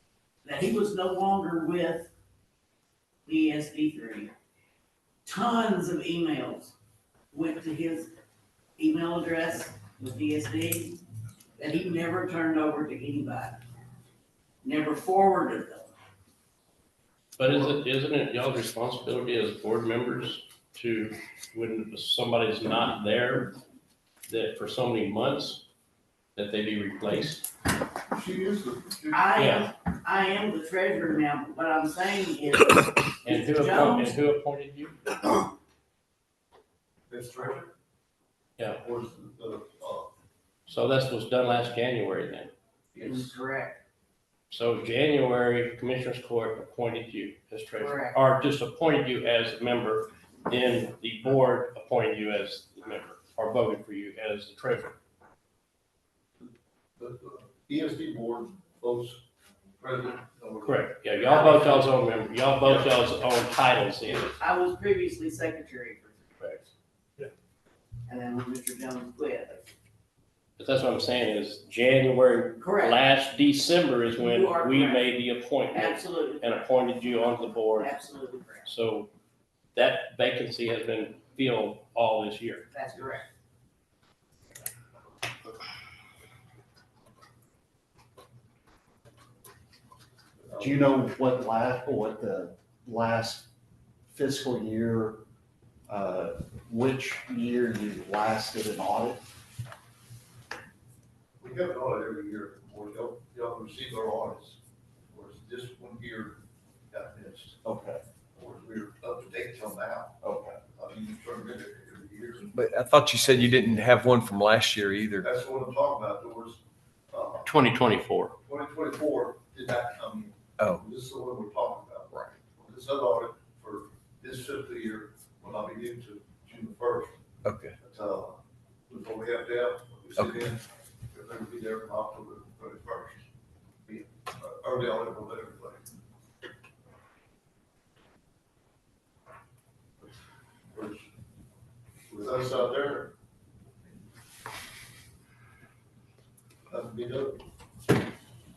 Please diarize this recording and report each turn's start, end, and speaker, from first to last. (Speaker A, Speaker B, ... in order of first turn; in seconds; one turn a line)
Speaker A: 0.4-2.1
Speaker A: 3.2-4.3
Speaker A: 5.2-6.7
Speaker A: 7.3-8.1
Speaker A: 8.8-11.0
Speaker A: 11.6-13.6
Speaker A: 14.6-15.9
Speaker B: 17.4-23.6
Speaker B: 24.3-25.6
Speaker B: 26.4-27.5
Speaker C: 28.1-29.2
Speaker A: 29.1-34.2
Speaker B: 29.4-29.7
Speaker B: 33.2-35.0
Speaker C: 37.1-37.7
Speaker B: 38.6-38.8
Speaker C: 38.8-40.1
Speaker B: 40.7-42.5
Speaker C: 42.9-43.3
Speaker A: 43.0-43.8
Speaker B: 44.5-55.0
Speaker A: 47.8-48.2
Speaker C: 57.0-59.2
Speaker C: 59.8-60.9
Speaker B: 60.6-64.4
Speaker A: 61.2-61.9
Speaker A: 64.3-66.4
Speaker A: 68.1-69.7
Speaker B: 70.6-78.0
Speaker A: 72.6-73.0
Speaker A: 74.2-75.1
Speaker A: 75.7-76.6
Speaker A: 77.8-78.7
Speaker B: 78.6-79.1
Speaker B: 79.7-82.7
Speaker A: 82.7-83.3
Speaker C: 90.4-90.9
Speaker D: 90.6-93.5
Speaker D: 94.1-95.2
Speaker D: 95.9-99.2
Speaker C: 101.4-104.6
Speaker C: 105.1-107.6
Speaker D: 107.6-108.0
Speaker C: 108.3-112.5
Speaker D: 110.2-110.6
Speaker E: 112.5-115.3
Speaker C: 115.2-117.5
Speaker B: 117.4-118.4
Speaker C: 118.4-127.2
Speaker E: 127.4-127.8
Speaker C: 127.8-128.4
Speaker C: 128.9-133.2
Speaker C: 133.8-135.9
Speaker C: 140.7-141.1
Speaker C: 142.1-143.1
Speaker C: 146.7-147.4